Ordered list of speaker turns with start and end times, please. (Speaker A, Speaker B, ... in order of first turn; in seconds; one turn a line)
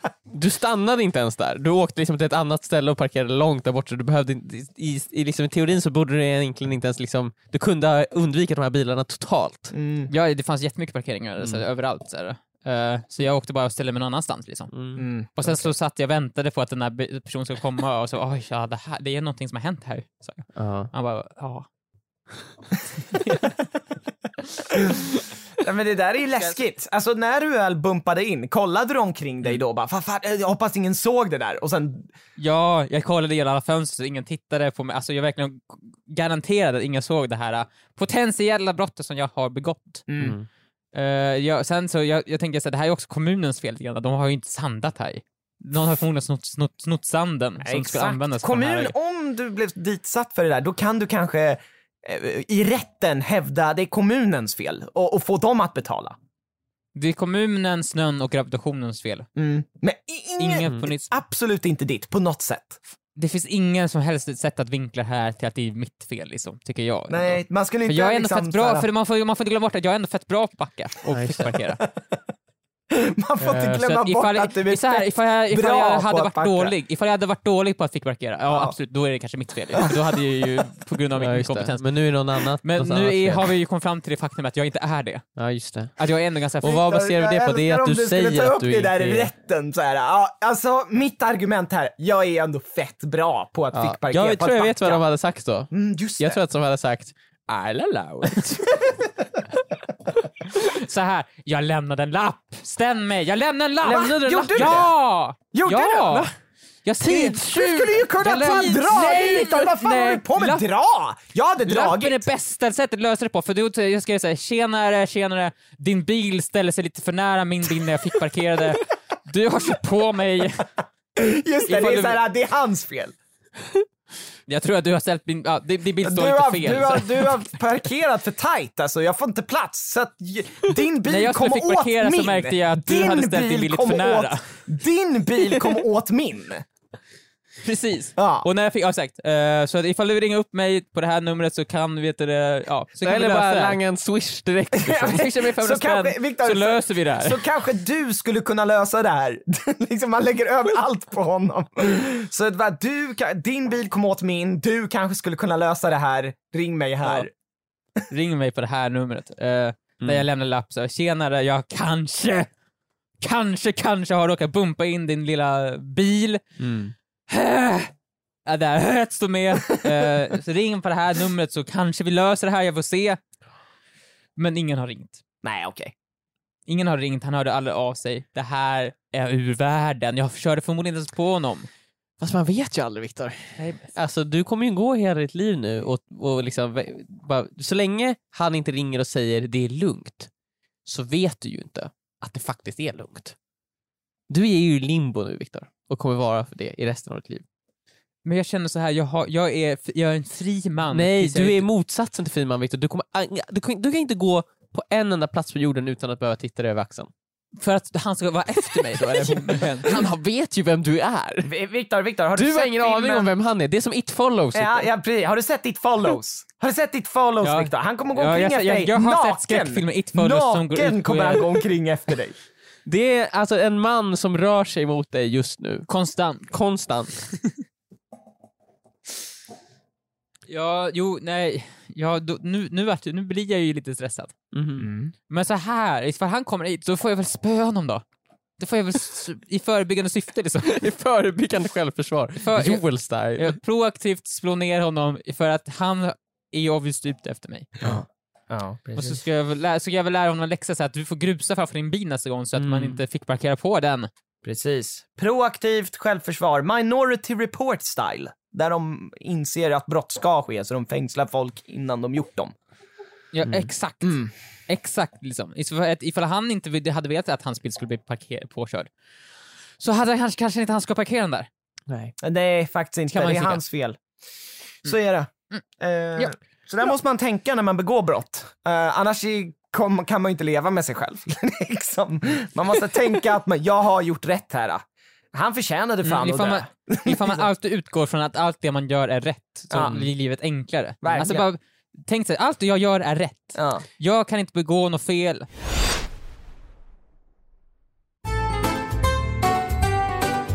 Speaker A: 0.3-9.7
Speaker B: 9.7-10.1
Speaker C: 10.1-14.7
Speaker A: 14.7-15.5
Speaker B: 15.0-15.3
Speaker C: 15.3-21.7
Speaker A: 20.6-20.9
Speaker C: 23.1-23.6
Speaker B: 24.7-25.1
Speaker B: 25.6-32.1
Speaker C: 32.4-40.1
Speaker B: 40.1-40.4
Speaker A: 40.2-40.5
Speaker C: 40.9-48.9
Speaker B: 47.6-56.2
Speaker C: 57.0-59.3
Speaker B: 59.4-62.8
Speaker C: 60.4-61.1
Speaker C: 63.2-71.8
Speaker B: 67.1-68.9
Speaker A: 71.1-71.6
Speaker B: 72.9-76.8
Speaker C: 73.5-81.9
Speaker B: 78.5-78.8
Speaker A: 81.2-83.5
Speaker C: 82.6-85.3
Speaker A: 85.4-85.9
Speaker C: 86.0-86.8
Speaker A: 86.6-89.3
Speaker B: 86.6-95.0
Speaker A: 93.7-98.7
Speaker B: 95.7-96.4
Speaker C: 100.5-106.3
Speaker B: 103.8-104.9
Speaker A: 103.8-104.9
Speaker B: 105.5-106.2
Speaker C: 106.8-110.7
Speaker A: 107.0-107.5
Speaker B: 107.5-112.2
Speaker C: 111.7-120.7
Speaker B: 121.2-123.1
Speaker C: 121.7-122.2
Speaker C: 124.5-127.4
Speaker B: 126.0-136.7
Speaker C: 131.1-134.4
Speaker A: 137.7-138.1
Speaker B: 138.2-138.5
Speaker C: 138.4-143.8
Speaker A: 143.0-145.3
Speaker B: 144.7-157.3
Speaker C: 145.1-147.4
Speaker C: 158.1-162.5
Speaker A: 160.0-160.3
Speaker C: 163.2-166.4
Speaker A: 166.6-166.9
Speaker C: 167.3-167.9
Speaker C: 168.5-173.2
Speaker C: 174.4-175.2
Speaker B: 175.4-175.9
Speaker C: 176.7-181.7
Speaker A: 182.2-190.3
Speaker C: 183.6-183.9
Speaker A: 190.8-193.4
Speaker A: 194.3-197.4
Speaker C: 198.2-201.7
Speaker A: 200.9-207.1
Speaker C: 207.6-210.0
Speaker A: 209.0-211.5
Speaker B: 211.4-213.3
Speaker A: 212.3-214.9
Speaker B: 214.5-222.4
Speaker C: 217.4-221.6
Speaker A: 222.9-225.9
Speaker C: 225.9-226.5
Speaker A: 226.5-227.2
Speaker C: 230.5-234.3
Speaker A: 234.5-234.9
Speaker B: 234.8-235.1
Speaker C: 235.3-238.0
Speaker C: 238.6-240.8
Speaker A: 240.7-243.6
Speaker C: 242.4-242.9
Speaker C: 243.4-247.8
Speaker B: 248.5-249.2
Speaker C: 249.0-254.1
Speaker A: 252.6-253.0
Speaker B: 254.4-262.5
Speaker C: 263.3-268.9
Speaker A: 263.4-263.7
Speaker B: 264.0-264.3
Speaker C: 269.8-271.5
Speaker A: 271.9-272.1
Speaker B: 272.2-274.0
Speaker C: 273.1-273.6
Speaker B: 274.8-287.4
Speaker C: 286.0-295.5
Speaker B: 289.7-290.1
Speaker A: 289.8-290.1
Speaker B: 291.0-291.5
Speaker B: 293.6-293.8